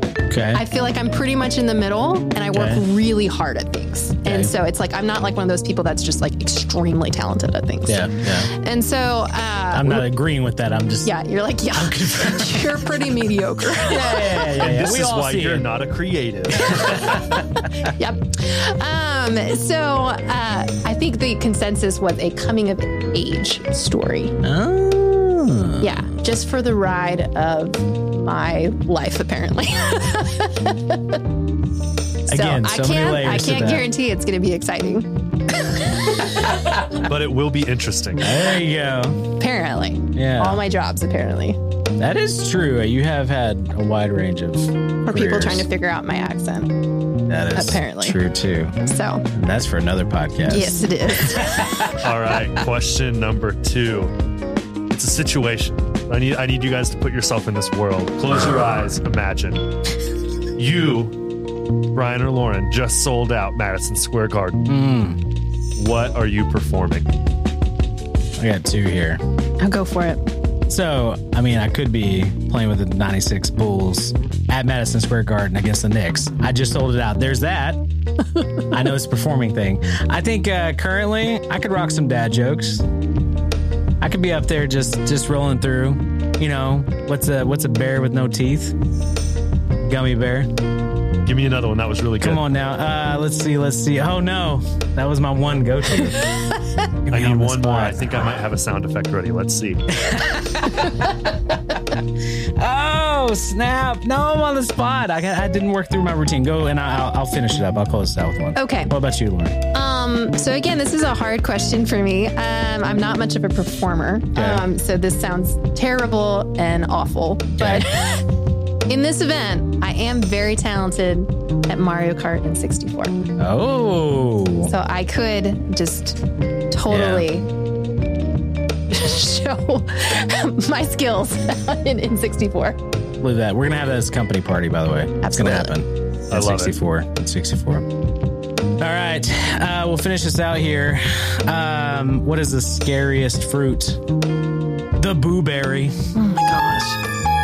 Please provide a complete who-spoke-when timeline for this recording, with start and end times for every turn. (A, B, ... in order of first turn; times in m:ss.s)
0:00.3-0:00.6 A
0:00.5-0:10.1 B
0:02.5-0:02.8 A
0:04.3-0:04.5 A
0:07.9-0:08.5 A
0:09.7-0:11.1 A
0:11.0-0:14.6 B
0:11.7-0:12.9 A
0:13.8-0:15.7 A
0:14.6-0:17.2 C
0:16.6-0:17.9 A
0:17.8-0:24.4 B
0:24.4-0:26.1 A
0:25.8-0:31.2 B
0:32.3-0:33.9 A
0:32.3-0:35.1 B
0:35.8-0:36.4 B
0:36.2-0:36.7 A
0:37.0-0:38.3 C
0:38.2-0:39.3 A
0:39.4-0:41.6 B
0:40.1-0:40.6 A
0:42.0-0:45.7 A
0:45.1-0:46.8 B
0:47.3-0:48.8 A
0:47.5-0:48.2 B
0:48.8-0:49.2 B
0:49.3-0:52.0 A
0:50.5-0:51.8 B
0:52.0-0:54.1 C
0:54.9-0:59.9 C
0:58.3-0:58.7 A
1:00.6-1:01.2 C
1:01.9-1:04.6 C
1:04.7-1:05.2 A
1:05.8-1:07.1 C
1:08.4-1:09.2 A
1:09.6-1:10.2 B
1:10.7-1:17.8 A
1:18.7-1:22.8 A
1:24.0-1:28.7 A
1:29.8-1:30.5 A
1:31.3-1:32.4 C
1:32.2-1:36.4 A
1:37.0-1:38.4 A
1:37.1-1:40.1 C
1:40.0-1:42.0 A
1:42.6-1:49.6 A
1:48.6-1:48.9 B
1:49.7-1:58.3 B
1:54.4-1:54.6 A
1:57.6-1:57.9 A
1:58.9-2:03.2 B
2:03.4-2:04.7 A
2:04.6-2:07.5 B
2:06.9-2:07.3 A
2:08.9-2:12.8 B
2:13.2-2:17.9 A
2:15.2-2:15.7 B
2:16.3-2:16.8 C
2:18.8-2:24.0 A
2:25.0-2:26.2 A
2:26.2-2:27.0 B